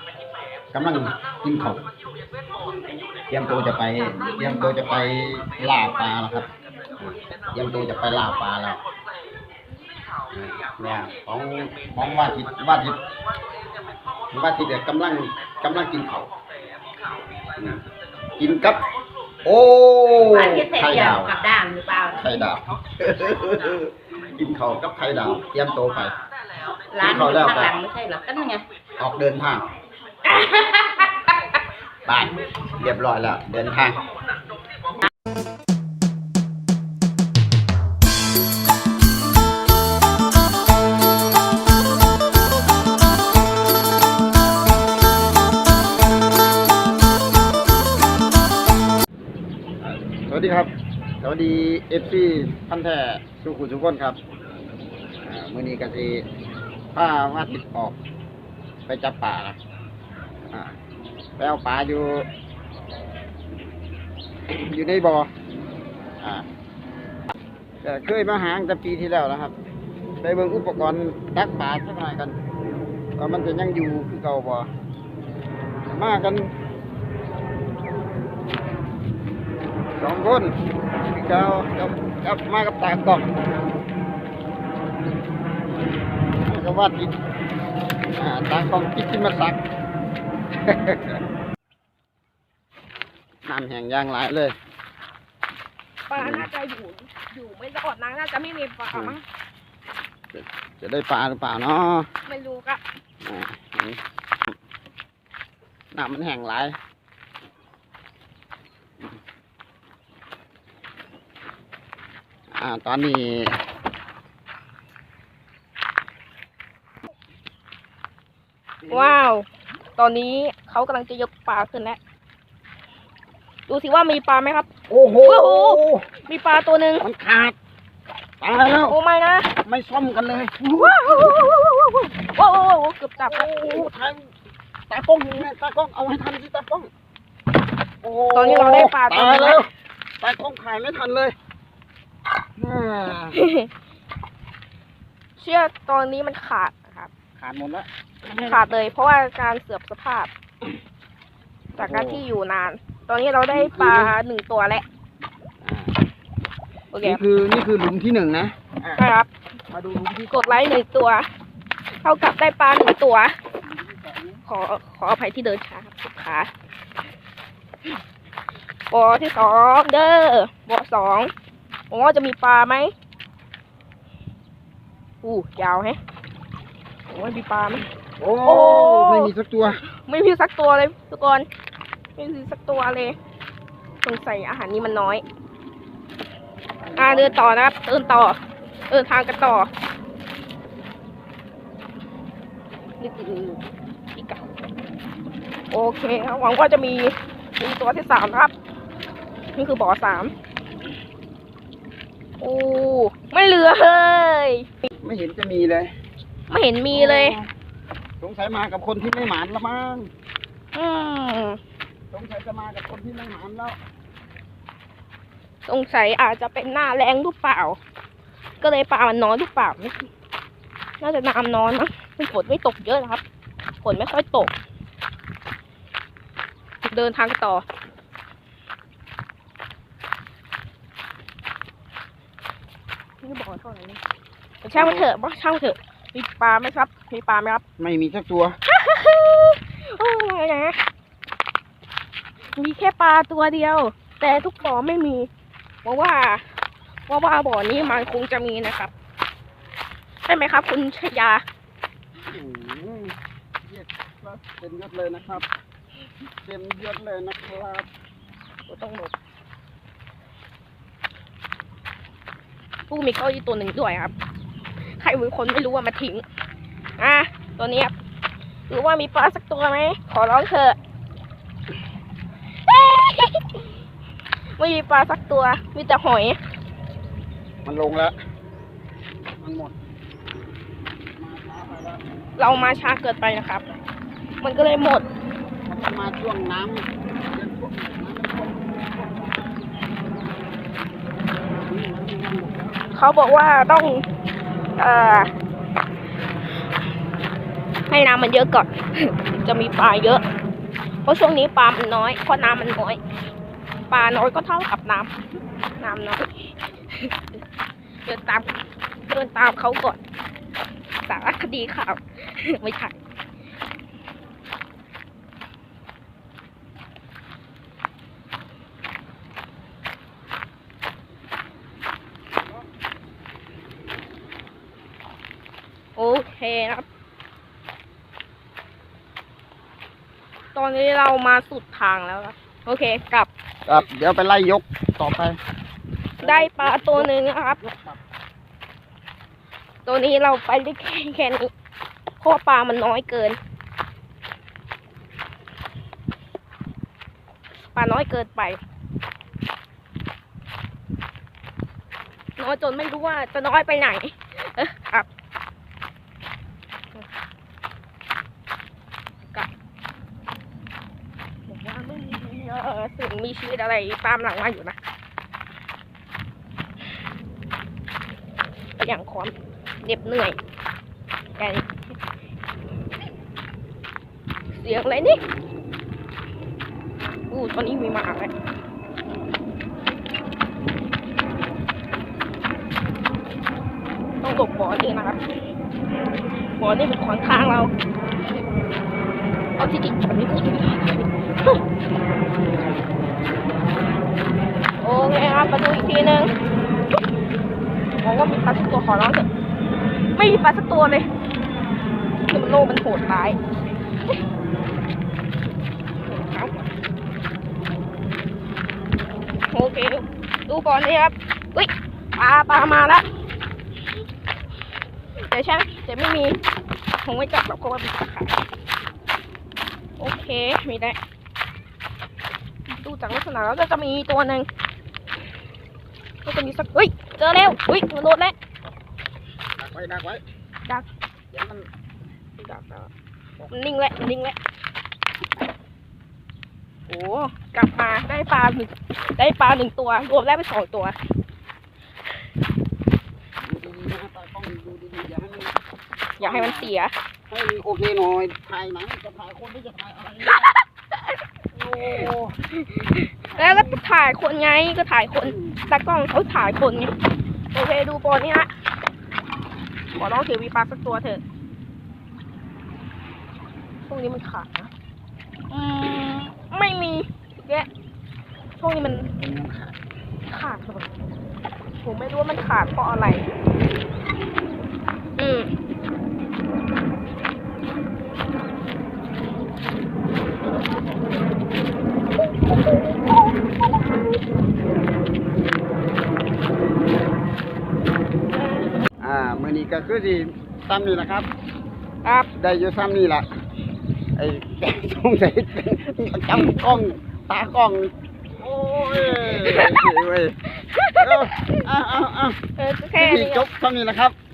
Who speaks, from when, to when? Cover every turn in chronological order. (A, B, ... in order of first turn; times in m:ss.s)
0:00.7-0:01.8 A
0:03.3-0:06.5 A
0:07.0-0:08.8 A
0:10.3-0:13.0 A
0:14.3-0:16.3 A
0:17.6-0:17.8 A
0:18.4-0:18.8 A
0:19.4-0:21.4 A
0:20.2-0:22.4 B
0:22.1-0:26.1 A
0:26.9-0:28.6 B
0:27.0-0:27.8 A
0:29.0-0:29.6 A
0:30.2-0:31.1 B
0:32.0-0:34.0 A
0:49.8-0:50.7 A
0:51.2-0:54.2 A
0:55.2-0:56.2 A
0:56.9-0:58.0 A
0:58.9-0:59.6 A
1:01.4-1:02.2 A
1:04.5-1:05.3 A
1:07.8-1:09.5 A
1:10.2-1:12.3 A
1:13.2-1:14.7 A
1:15.9-1:16.5 A
1:20.0-1:20.5 A
1:21.1-1:23.2 A
1:26.4-1:27.1 A
1:28.2-1:29.6 A
1:30.6-1:31.2 A
1:33.4-1:34.5 A
1:36.1-1:39.2 C
1:36.2-1:36.5 A
1:40.3-1:42.1 A
1:42.2-1:42.8 C
1:43.2-1:44.0 A
1:45.9-1:46.8 A
1:52.5-1:53.5 A
1:58.8-1:59.2 A
1:58.9-2:02.0 C
2:03.7-2:04.7 C
2:04.9-2:06.1 A
2:05.2-2:07.0 C
2:07.0-2:07.6 A
2:08.4-2:09.0 A
2:08.8-2:09.5 C
2:09.6-2:11.7 A
2:10.7-2:13.8 C
2:13.2-2:14.3 A
2:14.9-2:16.9 A
2:18.0-2:19.7 A
2:18.3-2:19.6 C
2:20.2-2:21.3 A
2:22.6-2:23.4 A
2:23.3-2:23.7 C
2:25.4-2:27.1 C
2:27.4-2:28.6 A
2:28.4-2:30.3 C
2:31.8-2:32.2 A
2:31.8-2:34.8 C
2:33.5-2:34.1 A
2:35.6-2:35.9 A
2:36.9-2:37.2 C
2:37.0-2:39.1 A
2:39.0-2:39.3 C
2:39.7-2:40.6 A
2:40.3-2:41.2 C
2:42.0-2:43.3 C
2:43.6-2:44.4 A
2:44.4-2:46.5 C
2:48.9-2:51.3 C
2:51.9-2:52.9 C
2:55.2-2:56.0 C
2:57.1-2:57.8 C
2:58.2-2:59.8 A
2:58.4-2:59.3 C
2:59.9-3:01.4 C
3:02.2-3:03.1 C
3:04.0-3:05.2 C
3:06.8-3:07.7 A
3:07.0-3:08.4 C
3:08.9-3:09.7 C
3:13.0-3:13.6 C
3:14.1-3:14.4 C
3:15.7-3:18.5 C
3:19.6-3:20.3 C
3:22.4-3:24.7 C
3:25.0-3:25.9 A
3:26.5-3:27.4 C
3:26.9-3:27.5 A
3:28.2-3:30.1 A
3:30.7-3:31.6 C
3:32.1-3:33.8 A
3:35.6-3:37.8 C
3:38.6-3:40.1 C
3:41.0-3:43.2 C
3:43.8-3:44.5 C
3:46.8-3:47.6 C
3:53.2-3:54.0 C
3:54.6-3:57.6 C
3:54.7-3:55.1 A
3:57.8-3:58.6 A
3:58.7-4:00.8 C
4:02.6-4:05.3 C
4:05.8-4:06.4 C
4:07.1-4:08.9 C
4:10.2-4:11.4 C
4:12.3-4:15.4 A
4:16.4-4:17.9 A
4:18.7-4:19.1 C
4:22.9-4:24.1 C
4:25.0-4:26.2 C
4:27.0-4:27.9 C
4:28.7-4:30.8 C
4:32.6-4:33.6 C
4:34.6-4:36.4 C
4:37.6-4:38.1 A
4:39.4-4:39.8 A
4:41.2-4:42.0 A
4:42.4-4:43.7 C
4:44.4-4:45.0 C
4:45.6-4:49.5 A
4:51.3-4:52.8 A
4:52.9-4:54.0 C
4:54.8-4:55.3 C
4:57.9-5:00.2 C
5:01.0-5:03.0 C
5:03.9-5:05.1 C
5:05.8-5:07.1 C
5:08.0-5:08.5 C
5:09.1-5:10.0 C
5:11.1-5:13.0 C
5:26.0-5:26.8 C
5:30.5-5:33.3 C
5:33.7-5:35.4 A
5:36.2-5:37.6 C
5:36.2-5:38.0 A
5:39.8-5:41.5 C
5:42.2-5:43.4 C
5:47.7-5:48.6 C
5:52.4-5:55.1 C
6:01.5-6:04.8 C
6:08.8-6:10.4 C
6:11.4-6:11.7 C
6:14.5-6:15.2 C
6:17.3-6:18.3 C
6:24.2-6:25.2 C
6:26.6-6:27.7 C
6:29.6-6:31.6 C
6:34.8-6:36.3 C
6:38.0-6:39.3 C
6:40.2-6:41.0 C
6:42.3-6:43.4 C
6:46.0-6:46.7 C
6:49.5-6:53.0 C
6:55.3-6:56.4 C
6:57.0-6:58.4 C
7:00.0-7:01.0 C
7:02.7-7:04.4 C
7:06.2-7:08.3 C
7:09.6-7:10.2 A
7:11.3-7:11.7 A
7:12.4-7:12.9 C
7:13.5-7:14.4 C
7:16.9-7:20.9 C
7:23.4-7:25.6 A
7:26.2-7:26.7 A
7:26.2-7:26.9 C
7:27.3-7:30.5 A
7:30.3-7:30.6 C
7:31.5-7:32.4 A
7:32.5-7:36.9 C
7:33.3-7:33.8 A
7:35.2-7:35.7 A
7:37.5-7:38.5 C
7:39.9-7:41.2 C
7:43.9-7:44.7 C
7:45.5-7:47.7 C
7:48.6-7:49.1 C
7:48.8-7:49.8 A
7:50.3-7:50.9 C
7:51.8-7:53.2 C
7:55.2-7:55.5 C
8:08.3-8:08.8 C
8:09.0-8:11.3 A
8:12.0-8:12.3 C
8:12.4-8:13.3 A
8:14.2-8:20.3 A
8:18.9-8:20.0 C
8:20.5-8:21.6 C
8:21.0-8:22.4 A
8:22.6-8:23.4 C
8:22.9-8:24.1 A